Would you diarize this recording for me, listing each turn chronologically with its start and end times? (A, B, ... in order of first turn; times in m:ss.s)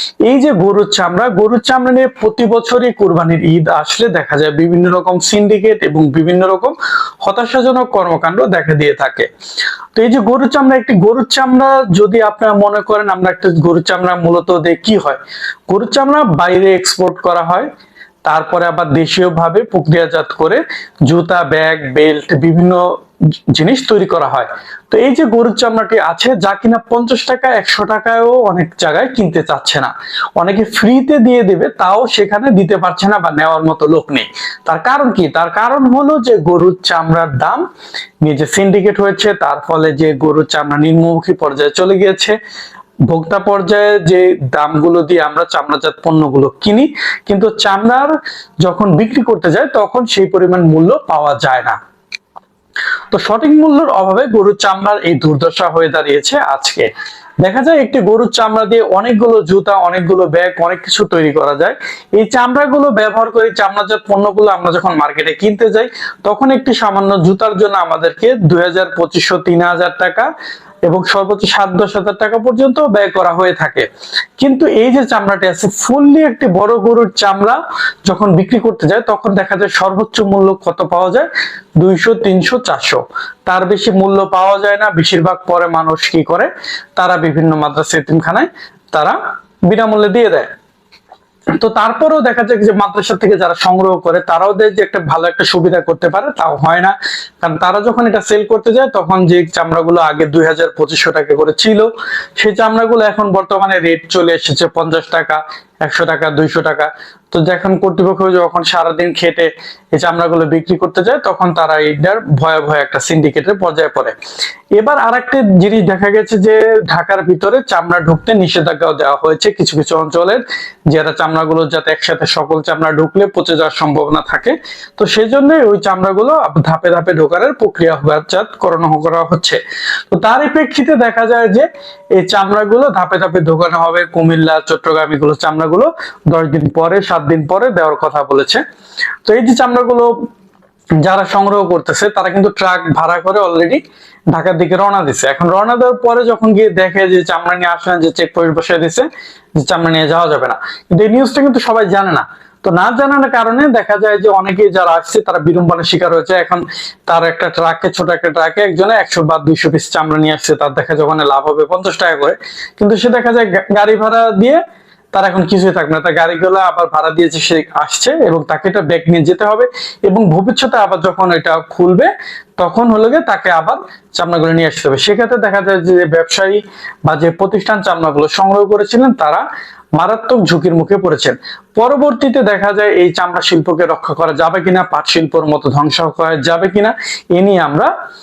0:00.2-0:09.3 A
0:10.0-0:17.7 A
0:18.2-0:22.8 A
0:23.5-0:37.6 A
0:38.2-0:42.4 A
0:43.1-0:51.8 A
0:53.1-0:56.9 A
0:57.4-1:10.3 A
1:10.9-1:13.9 A
1:14.4-1:21.3 A
1:21.8-1:29.2 A
1:29.7-1:30.5 A
1:31.6-1:41.9 A
1:42.4-1:54.1 A
1:54.8-2:09.6 A
2:10.1-2:18.6 A
2:19.2-2:20.1 A
2:21.0-2:29.1 A
2:29.6-2:44.6 A
2:45.1-2:59.4 A
3:00.0-3:07.9 A